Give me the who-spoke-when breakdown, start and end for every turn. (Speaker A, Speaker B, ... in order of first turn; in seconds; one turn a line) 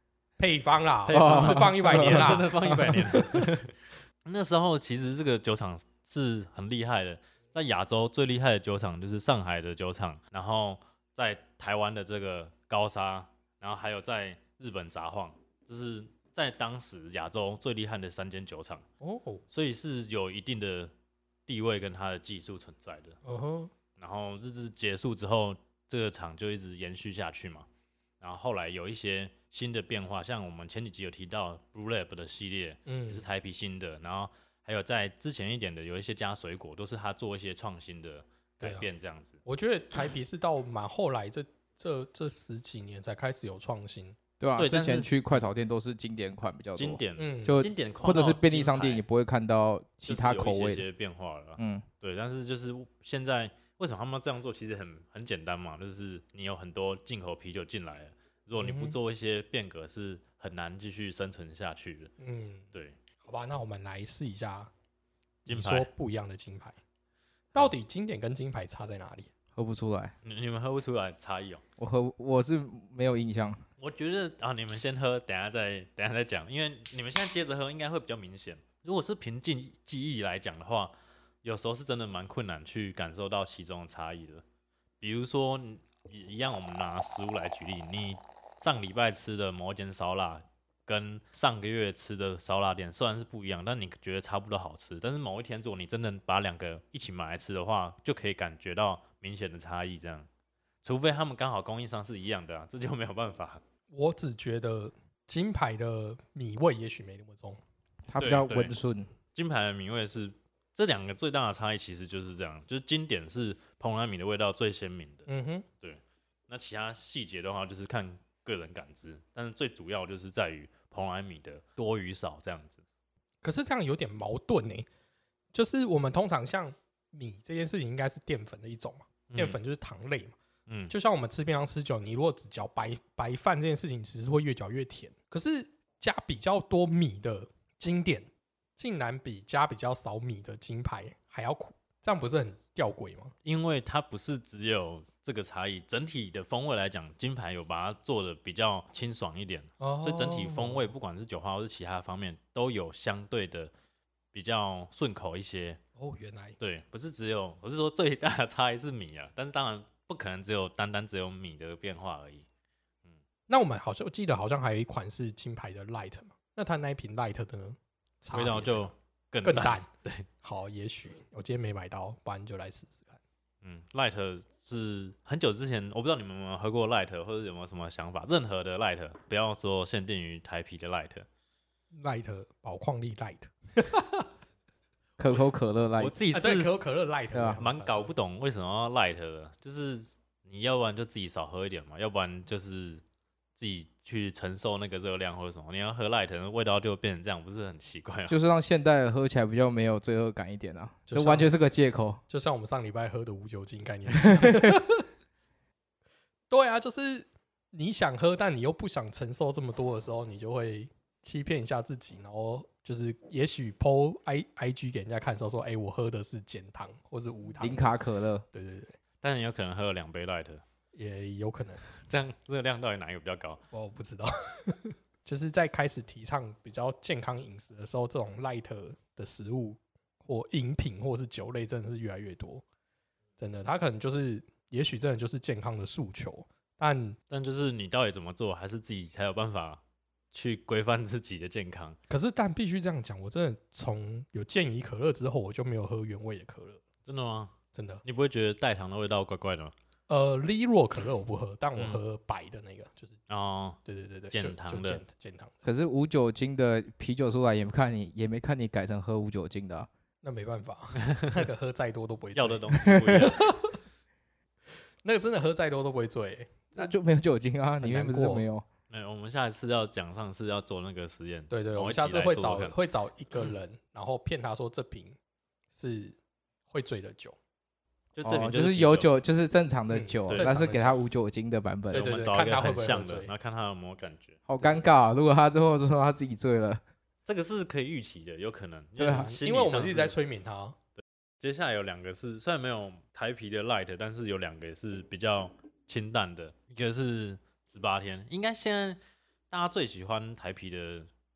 Speaker A: 0.4-3.5
Speaker B: 1.1-18.8
Speaker C: 1.1-3.1
Speaker A: 19.0-19.4
Speaker B: 19.5-20.9
Speaker B: 21.5-23.2
Speaker A: 23.2-23.7
Speaker B: 24.0-27.7
Speaker B: 28.2-39.4
Speaker A: 32.9-33.2
Speaker A: 38.6-38.9
Speaker A: 39.4-44.2
Speaker C: 44.4-50.9
Speaker B: 44.6-45.1
Speaker B: 46.8-49.0
Speaker A: 47.2-47.6
Speaker B: 50.0-62.1
Speaker C: 51.6-51.9
Speaker A: 58.6-59.0
Speaker A: 62.2-62.6
Speaker B: 62.7-63.0
Speaker A: 63.2-64.7
Speaker A: 65.5-66.8
Speaker B: 65.5-65.9
Speaker A: 67.5-69.3
Speaker C: 69.5-70.1
Speaker B: 70.2-71.6
Speaker C: 71.8-73.7
Speaker B: 73.8-84.4
Speaker B: 85.0-100.3
Speaker B: 100.8-103.6
Speaker A: 103.9-107.6
Speaker C: 108.1-109.1
Speaker B: 108.2-108.7
Speaker B: 109.3-115.3
Speaker A: 115.3-115.7
Speaker B: 115.8-122.8
Speaker A: 123.4-124.9
Speaker A: 125.5-130.3
Speaker B: 129.3-129.6
Speaker B: 130.7-130.9
Speaker A: 130.9-143.3
Speaker B: 143.4-153.7
Speaker A: 149.8-150.9
Speaker B: 154.3-155.8
Speaker A: 156.0-156.6
Speaker B: 156.6-162.4
Speaker A: 163.5-168.9
Speaker B: 168.3-170.3
Speaker A: 169.4-169.9
Speaker A: 170.4-173.2
Speaker B: 173.6-181.2
Speaker A: 181.9-184.2
Speaker C: 185.2-186.2
Speaker B: 186.0-186.7
Speaker A: 186.3-188.1
Speaker C: 187.3-187.6
Speaker B: 187.6-193.0
Speaker B: 193.6-198.4
Speaker C: 198.3-202.2
Speaker A: 201.1-201.5
Speaker A: 202.3-205.0
Speaker C: 204.3-204.8
Speaker A: 206.5-217.9
Speaker C: 217.6-218.4
Speaker A: 218.5-218.9
Speaker B: 219.2-220.6
Speaker A: 220.9-221.8
Speaker B: 221.9-223.6
Speaker A: 223.7-232.6
Speaker A: 233.4-237.2
Speaker B: 237.3-239.8
Speaker B: 240.3-242.0
Speaker A: 242.1-246.8
Speaker B: 247.1-247.5
Speaker A: 247.7-248.0
Speaker B: 248.0-249.7
Speaker A: 250.1-253.2
Speaker B: 253.3-253.8
Speaker A: 253.8-255.5
Speaker B: 254.3-255.0
Speaker C: 255.6-259.9
Speaker A: 260.2-263.7
Speaker B: 262.3-263.4
Speaker C: 262.8-263.2
Speaker A: 265.0-266.9
Speaker C: 266.7-268.6
Speaker A: 267.8-268.4
Speaker B: 268.9-272.7
Speaker A: 271.5-275.2
Speaker A: 275.7-276.2
Speaker A: 276.7-277.4
Speaker B: 278.1-279.1
Speaker C: 278.2-282.1
Speaker A: 279.9-280.9
Speaker B: 280.3-280.6
Speaker A: 281.9-283.3
Speaker B: 281.9-284.4
Speaker C: 284.5-286.8
Speaker B: 287.2-290.1
Speaker C: 289.0-289.3
Speaker A: 289.0-290.8
Speaker B: 291.4-299.0
Speaker B: 299.5-301.1